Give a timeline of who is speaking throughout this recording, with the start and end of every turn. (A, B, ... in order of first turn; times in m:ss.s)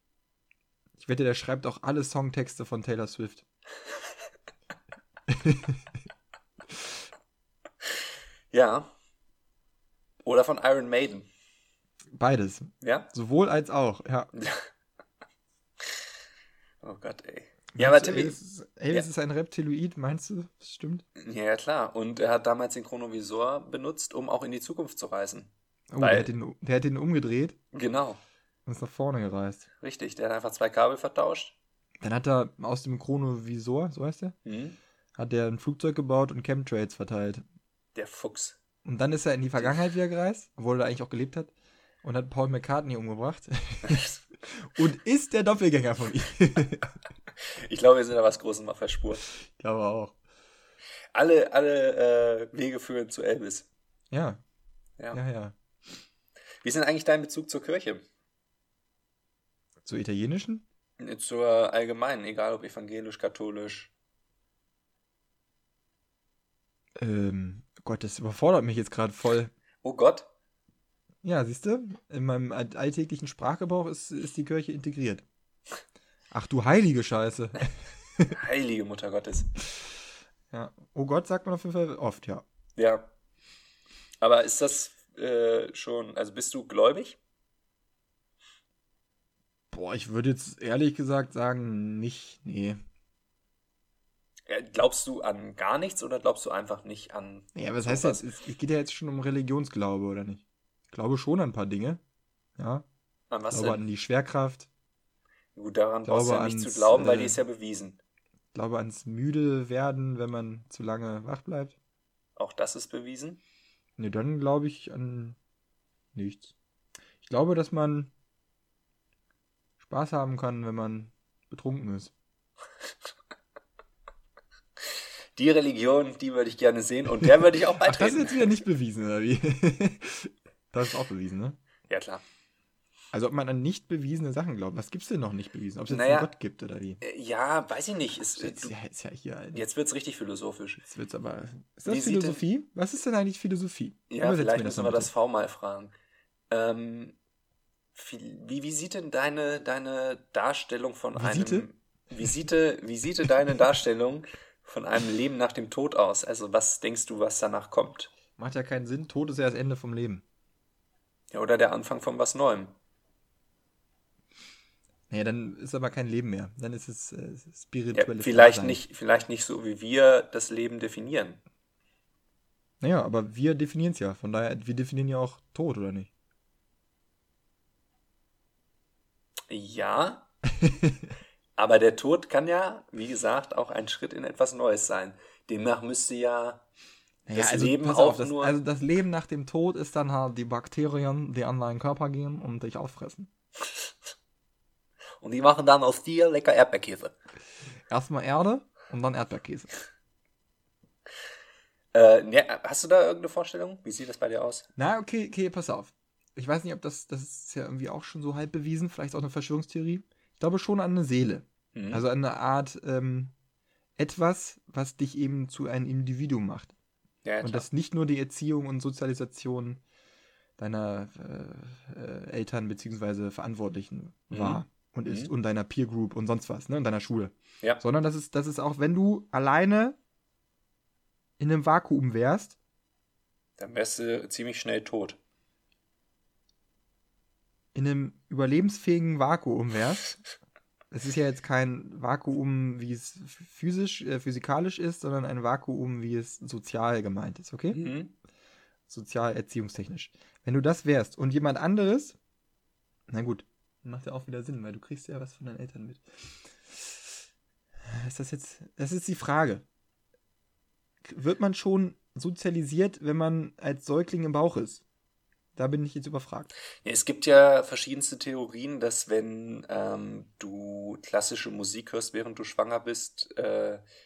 0:01.0-0:03.4 A
0:05.3-0:05.8 A
0:08.5-0:08.9 B
0:10.2-0:11.3 B
0:12.1-0:14.3 A
0:12.8-0:13.1 B
0:14.3-0:14.7 B
0:16.8-0:18.4 B
0:17.7-0:21.0 A
0:21.2-0:26.3 B
0:25.9-0:27.6 A
0:27.7-0:28.2 B
0:28.6-0:29.7 A
0:29.8-0:31.6 B
0:32.0-0:34.3 A
0:34.4-0:34.8 B
0:35.2-0:37.4 A
0:37.9-0:38.6 B
0:38.8-0:41.5 A
0:42.0-0:46.9 A
0:43.8-0:44.2 B
0:47.4-0:49.2 B
0:49.5-0:50.2 A
0:51.1-0:53.6 B
0:54.1-0:54.4 A
0:55.1-0:55.5 A
0:56.6-0:58.0 B
0:59.8-1:00.6 A
1:01.0-1:03.9 B
1:07.0-1:09.5 A
1:09.8-1:10.3 B
1:11.2-1:15.2 A
1:16.3-1:18.4 A
1:18.3-1:19.5 B
1:20.5-1:22.4 A
1:22.8-1:23.1 B
1:24.2-1:27.2 B
1:29.7-1:32.8 A
1:34.5-1:38.2 B
1:37.5-1:42.0 A
1:42.6-1:42.8 A
1:43.3-1:43.8 B
1:43.5-1:44.7 A
1:45.5-1:48.0 B
1:46.0-1:47.4 A
1:48.5-1:51.8 A
1:52.4-1:53.4 B
1:54.0-1:55.4 A
1:56.1-1:56.5 A
1:57.2-1:58.1 A
1:59.8-2:02.1 A
2:05.4-2:08.5 B
2:07.8-2:11.6 A
2:11.9-2:12.2 B
2:13.1-2:17.0 A
2:15.9-2:16.3 B
2:17.0-2:18.7 B
2:18.3-2:19.6 A
2:19.5-2:20.8 B
2:20.8-2:25.1 A
2:21.8-2:22.4 B
2:24.1-2:25.9 B
2:26.5-2:27.2 B
2:27.9-2:38.1 B
2:31.2-2:31.7 A
2:38.4-2:40.2 A
2:41.3-2:42.7 B
2:45.1-2:48.8 A
2:47.9-2:51.4 B
2:52.8-2:56.1 A
2:59.5-3:00.3 B
3:00.6-3:01.0 A
3:01.6-3:06.6 B
3:07.2-3:13.3 A
3:07.3-3:08.6 B
3:15.2-3:17.1 B
3:17.9-3:19.7 A
3:21.9-3:24.6 B
3:24.8-3:33.3 A
3:31.7-3:32.0 B
3:34.0-3:36.7 A
3:37.2-3:37.6 B
3:37.4-3:39.8 A
3:40.6-3:50.0 A
3:44.3-3:45.3 B
3:51.4-3:52.6 A
3:53.6-3:55.2 B
3:57.7-4:00.2 A
4:00.9-4:07.8 A
4:07.7-4:08.1 B
4:08.9-4:12.2 A
4:13.1-4:17.1 A
4:17.8-4:19.6 A
4:21.0-4:24.8 A
4:25.6-4:26.5 A
4:26.8-4:33.8 B